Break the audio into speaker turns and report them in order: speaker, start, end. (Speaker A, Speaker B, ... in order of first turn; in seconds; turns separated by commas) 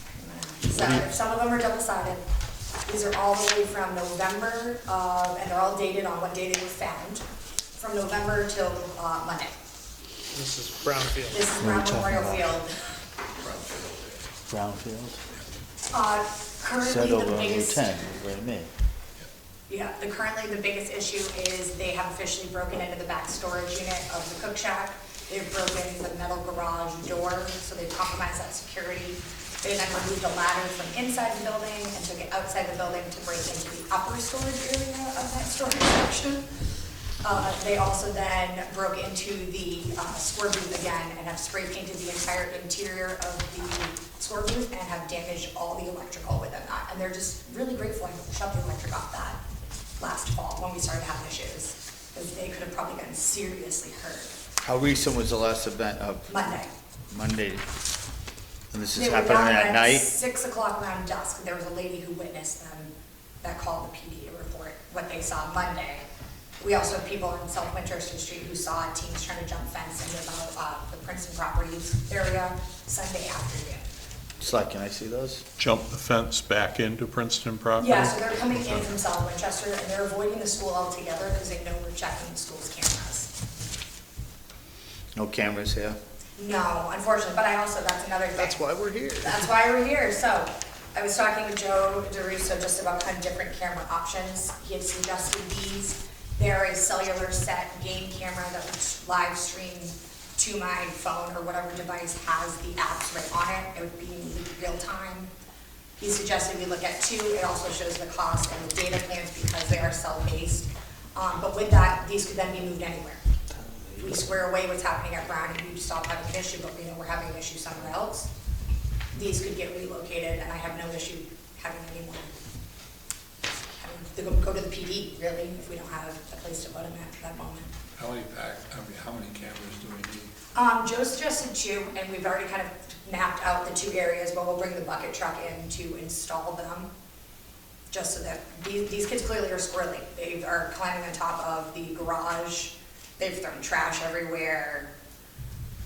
Speaker A: 0.2-2.2, Speaker A: 2.9-7.2, Speaker A: 7.8-9.6, Speaker B: 10.3-11.6, Speaker A: 11.3-12.9, Speaker C: 11.6-12.5, Speaker D: 13.4-14.3, Speaker C: 14.5-15.2, Speaker A: 15.9-17.9, Speaker C: 16.8-18.7, Speaker A: 19.7-36.5, Speaker A: 37.2-49.4, Speaker A: 50.0-54.4, Speaker C: 54.6-56.4, Speaker A: 56.3-56.7, Speaker C: 57.1-57.6, Speaker C: 58.7-60.1, Speaker A: 58.9-66.0, Speaker A: 66.6-73.9, Speaker C: 74.4-75.4, Speaker D: 75.6-78.8, Speaker A: 77.8-83.3, Speaker C: 85.2-86.0, Speaker A: 86.4-88.6, Speaker B: 88.3-89.5, Speaker A: 89.2-105.3, Speaker A: 106.0-113.2, Speaker C: 113.5-114.2, Speaker A: 114.0-118.3, Speaker A: 119.1-122.3, Speaker A: 123.7-127.7, Speaker E: 128.0-130.2, Speaker A: 130.6-136.9, Speaker A: 137.9-144.9